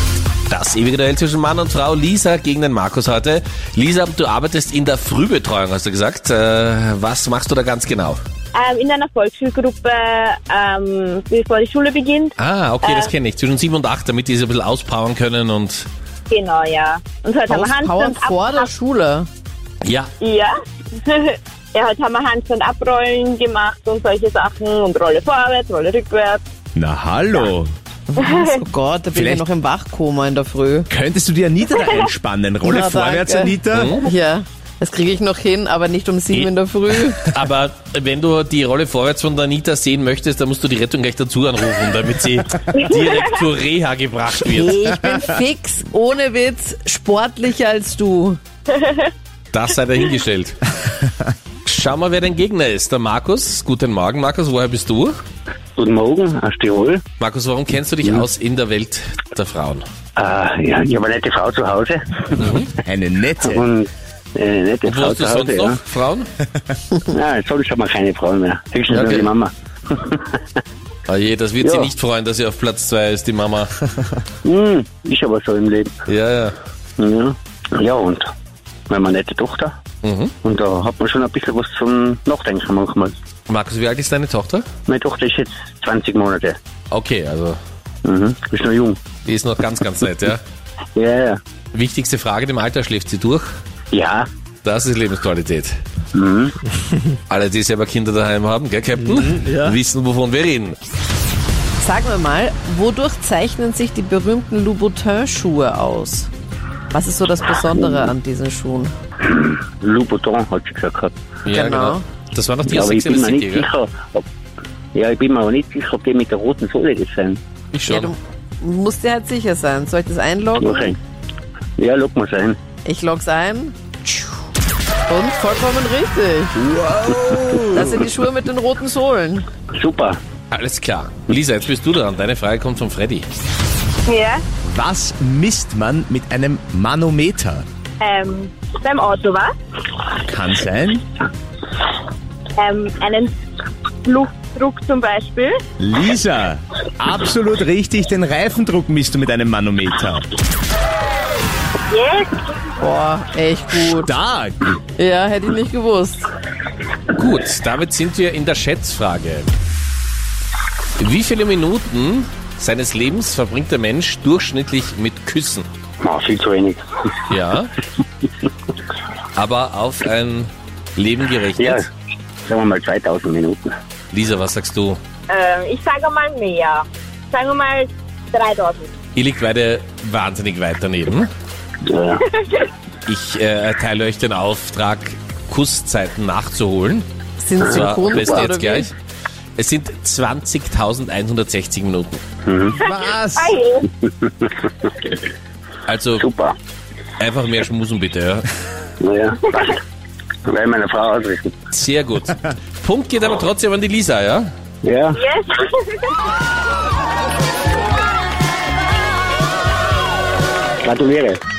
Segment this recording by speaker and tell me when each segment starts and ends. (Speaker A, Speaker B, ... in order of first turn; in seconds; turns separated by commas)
Speaker A: 0.5-8.2, Speaker B: 8.5-13.1, Speaker A: 12.4-15.9, Speaker B: 16.3-18.7, Speaker C: 17.5-19.3, Speaker A: 19.8-20.1, Speaker B: 20.2-26.4, Speaker D: 26.8-27.7, Speaker C: 28.1-30.9, Speaker B: 28.2-28.5, Speaker D: 29.1-29.5, Speaker D: 30.9-34.0, Speaker C: 32.6-37.2, Speaker A: 33.7-34.0, Speaker A: 37.2-45.0, Speaker C: 44.5-48.4, Speaker B: 48.8-49.1, Speaker A: 49.5-50.6, Speaker A: 51.7-55.2, Speaker E: 55.8-57.0, Speaker A: 57.2-59.8, Speaker E: 60.2-62.6, Speaker A: 62.4-62.7, Speaker D: 62.8-63.6, Speaker E: 63.4-65.8, Speaker A: 64.8-66.3, Speaker E: 67.0-70.4, Speaker A: 68.9-69.3, Speaker A: 71.0-73.7, Speaker E: 71.6-71.9, Speaker E: 74.4-75.9, Speaker A: 76.1-76.5, Speaker E: 77.0-78.3, Speaker E: 78.9-79.7, Speaker A: 80.0-80.3, Speaker E: 80.4-83.1, Speaker A: 83.5-84.7, Speaker E: 84.9-86.6, Speaker A: 86.9-87.6, Speaker E: 88.0-89.0, Speaker A: 89.2-90.4, Speaker E: 91.0-91.4, Speaker A: 91.7-93.5, Speaker E: 93.9-94.3, Speaker A: 94.6-95.8, Speaker E: 96.1-96.5, Speaker A: 97.3-100.8, Speaker D: 99.1-99.8, Speaker C: 101.8-106.3, Speaker C: 106.9-108.9, Speaker E: 109.2-111.1, Speaker A: 111.4-113.7, Speaker C: 111.5-112.0, Speaker E: 112.7-114.2, Speaker E: 114.9-117.4, Speaker A: 117.7-118.1, Speaker C: 117.8-121.0, Speaker E: 120.6-121.0, Speaker E: 121.8-122.6, Speaker C: 122.8-124.3, Speaker C: 125.1-126.6, Speaker D: 126.6-128.0, Speaker E: 127.3-127.8, Speaker C: 127.7-129.4, Speaker E: 129.8-130.2, Speaker A: 130.5-133.2, Speaker B: 134.1-134.4, Speaker D: 134.6-137.6, Speaker B: 138.0-139.5, Speaker D: 140.2-141.1, Speaker B: 142.6-143.3, Speaker B: 144.0-145.6, Speaker D: 145.8-150.3, Speaker B: 151.9-152.6, Speaker C: 152.8-154.1, Speaker D: 153.8-154.7, Speaker C: 154.9-156.3, Speaker A: 157.1-159.5, Speaker A: 161.0-165.7, Speaker E: 166.0-166.8, Speaker A: 167.3-167.7, Speaker A: 169.3-171.9, Speaker E: 171.6-171.8, Speaker E: 172.4-173.7, Speaker A: 174.1-175.0, Speaker B: 175.3-178.9, Speaker A: 179.1-181.3, Speaker E: 181.8-182.3, Speaker A: 183.1-187.1, Speaker C: 187.4-188.9, Speaker A: 187.6-188.9, Speaker A: 189.6-192.2, Speaker E: 192.4-192.8, Speaker D: 192.8-193.5, Speaker B: 193.3-193.9, Speaker E: 194.1-194.5, Speaker A: 195.9-196.2, Speaker E: 196.2-196.6, Speaker A: 197.2-198.5, Speaker E: 199.0-199.8, Speaker E: 200.4-201.5, Speaker A: 201.7-204.5, Speaker E: 204.8-205.2, Speaker B: 205.1-206.1, Speaker E: 210.8-211.4